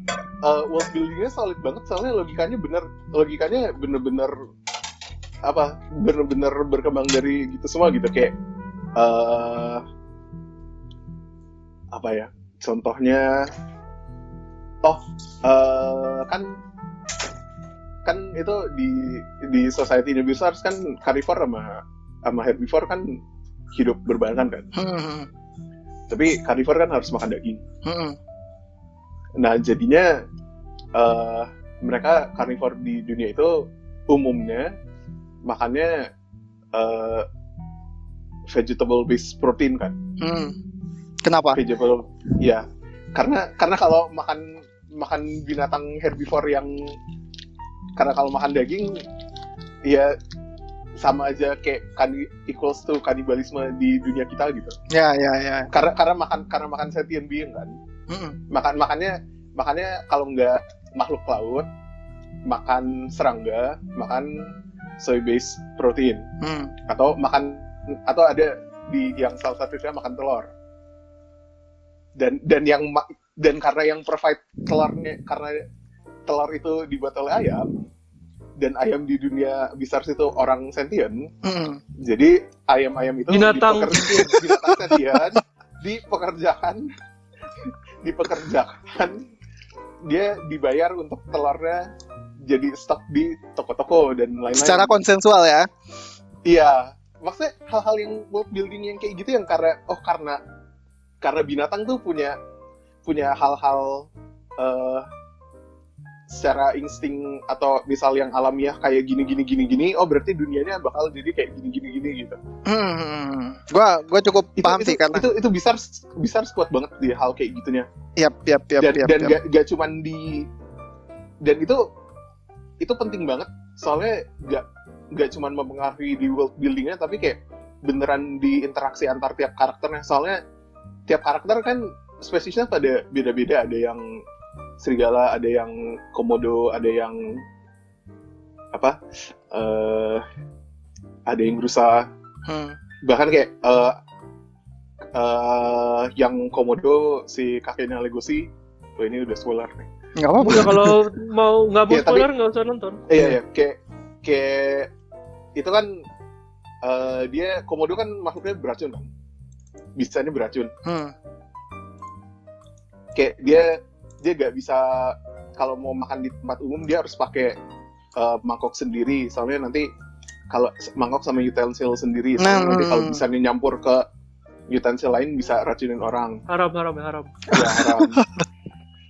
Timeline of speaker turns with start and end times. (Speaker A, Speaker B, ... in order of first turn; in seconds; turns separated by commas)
Speaker A: 0.4-4.3, Speaker A: 5.4-8.3, Speaker A: 8.9-9.8, Speaker A: 11.9-13.5, Speaker A: 14.8-16.6, Speaker A: 18.0-23.2, Speaker A: 23.7-24.7, Speaker B: 24.7-25.3, Speaker A: 26.1-27.6, Speaker B: 27.8-28.2, Speaker A: 29.4-30.2, Speaker A: 30.9-34.7, Speaker A: 35.5-36.1, Speaker A: 36.7-37.2, Speaker A: 38.5-39.9, Speaker B: 40.2-40.5, Speaker B: 41.2-41.6, Speaker A: 41.5-46.9, Speaker A: 48.0-49.0, Speaker A: 49.8-50.1, Speaker A: 51.0-54.7, Speaker B: 54.9-55.7, Speaker A: 55.7-57.7, Speaker B: 58.1-58.4, Speaker A: 58.5-61.7, Speaker A: 62.5-64.5, Speaker A: 65.0-66.2, Speaker B: 66.4-66.7, Speaker A: 66.9-70.5, Speaker A: 72.2-75.6, Speaker A: 76.3-77.7, Speaker A: 78.6-81.3, Speaker B: 81.4-81.8, Speaker A: 82.0-86.9, Speaker C: 83.3-84.3, Speaker B: 84.0-85.4, Speaker A: 87.6-89.2, Speaker A: 90.0-91.9, Speaker A: 92.5-94.9, Speaker B: 94.5-95.7, Speaker A: 96.5-100.4, Speaker A: 101.2-102.3, Speaker A: 103.0-104.1, Speaker A: 104.6-105.0, Speaker A: 106.3-112.4, Speaker B: 112.7-115.3, Speaker A: 114.6-117.9, Speaker B: 118.2-119.4, Speaker A: 118.8-120.5, Speaker A: 121.4-121.8, Speaker A: 122.8-130.4, Speaker A: 131.1-134.0, Speaker A: 134.8-137.4, Speaker A: 139.5-140.2, Speaker A: 141.3-142.1, Speaker B: 142.5-142.8, Speaker A: 143.0-144.0, Speaker A: 145.1-149.9, Speaker B: 150.2-150.9, Speaker C: 150.4-153.0, Speaker A: 151.9-152.3, Speaker A: 153.1-154.9, Speaker A: 155.6-156.0, Speaker A: 156.8-159.1, Speaker A: 160.0-160.7, Speaker B: 160.8-161.1, Speaker A: 163.1-167.6, Speaker A: 168.2-169.9, Speaker A: 170.5-174.0, Speaker B: 172.4-173.2, Speaker A: 174.7-176.4, Speaker C: 176.5-177.3, Speaker B: 177.5-178.4, Speaker A: 177.5-178.2